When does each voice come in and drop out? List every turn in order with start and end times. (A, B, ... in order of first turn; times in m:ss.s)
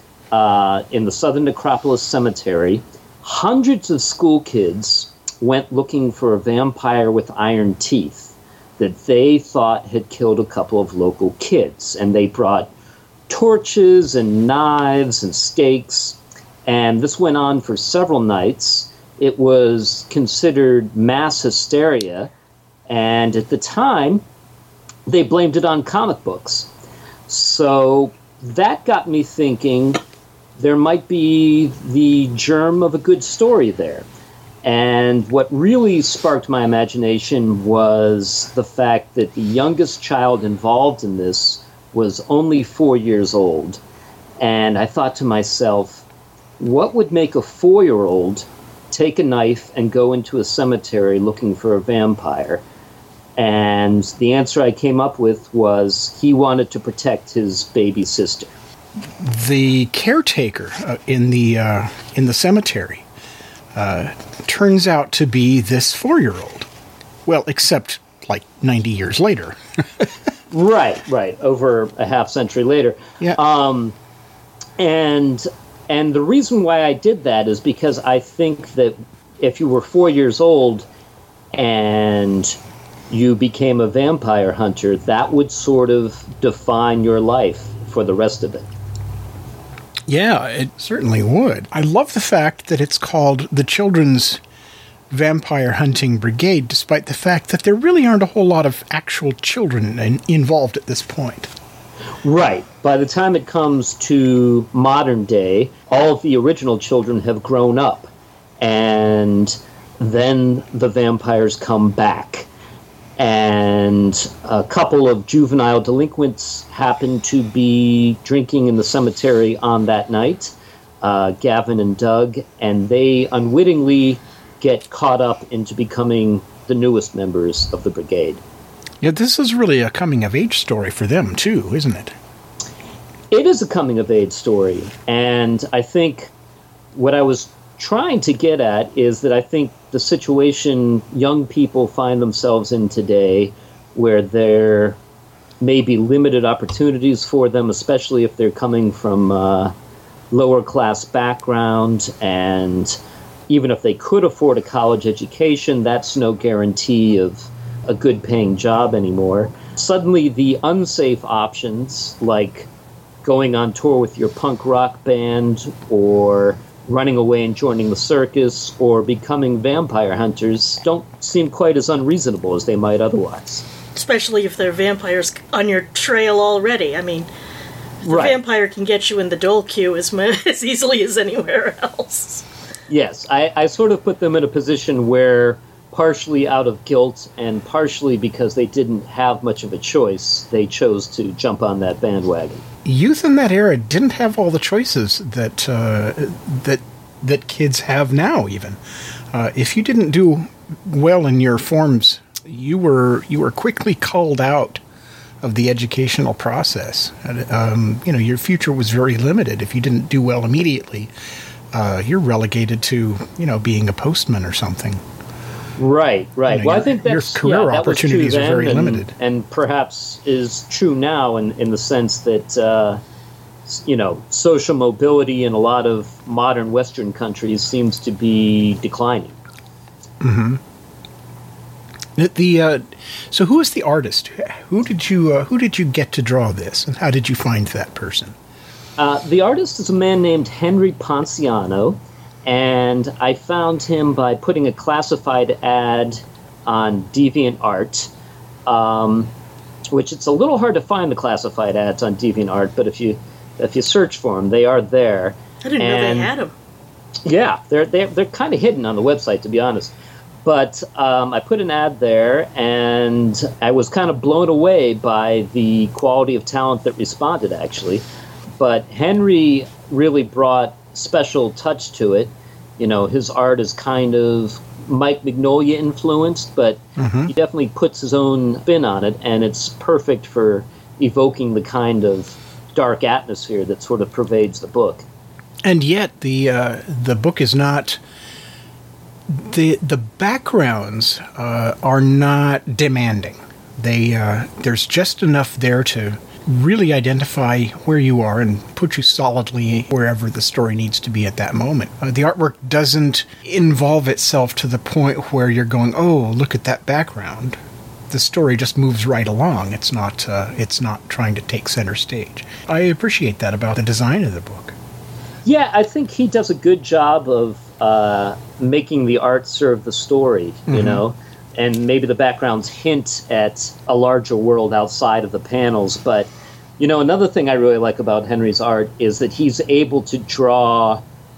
0:00.3-0:12.7 A
0:13.3-0:22.3 A
0:22.9-0:24.2 A
0:25.1-0:26.7 A
0:27.3-0:30.0 A
0:30.6-0:34.1 A
0:34.6-0:43.8 A
0:44.4-0:46.0 A
0:46.6-0:52.6 A
0:53.4-0:58.5 A
0:59.2-1:03.1 B
1:03.7-1:06.7 B
1:07.3-1:10.1 B
1:10.5-1:14.0 A
1:14.8-1:20.9 A
1:21.5-1:22.6 A
1:23.1-1:28.7 A
1:30.1-1:34.4 B
1:35.1-1:41.5 B
1:42.2-1:52.5 A
1:53.2-2:08.4 A
2:09.0-2:12.2 B
2:13.3-2:16.3 A
2:17.0-2:25.0 A
2:25.6-2:29.7 A
2:30.3-2:42.7 A
2:43.2-2:53.7 A
2:54.0-2:57.3 C
2:58.0-3:02.4 C
2:58.0-2:58.4 A
3:02.9-3:12.6 A
3:12.8-3:18.8 B
3:19.3-3:24.8 B
3:25.4-3:31.1 B
3:31.7-3:35.0 B
3:35.8-3:43.0 A
3:36.5-3:39.1 B
3:43.7-3:49.4 A
3:50.2-3:50.6 B
3:52.2-3:58.4 B
3:59.0-4:08.1 A
4:08.7-4:09.3 A
4:09.9-4:16.3 A
4:15.6-4:16.5 C
4:17.3-4:19.9 A
4:20.4-4:28.0 A
4:28.6-4:45.0 A
4:37.0-4:37.3 B
4:45.6-4:48.0 B
4:49.3-5:07.6 B
5:08.1-5:14.8 B
5:15.4-5:31.0 A
5:20.7-5:21.0 B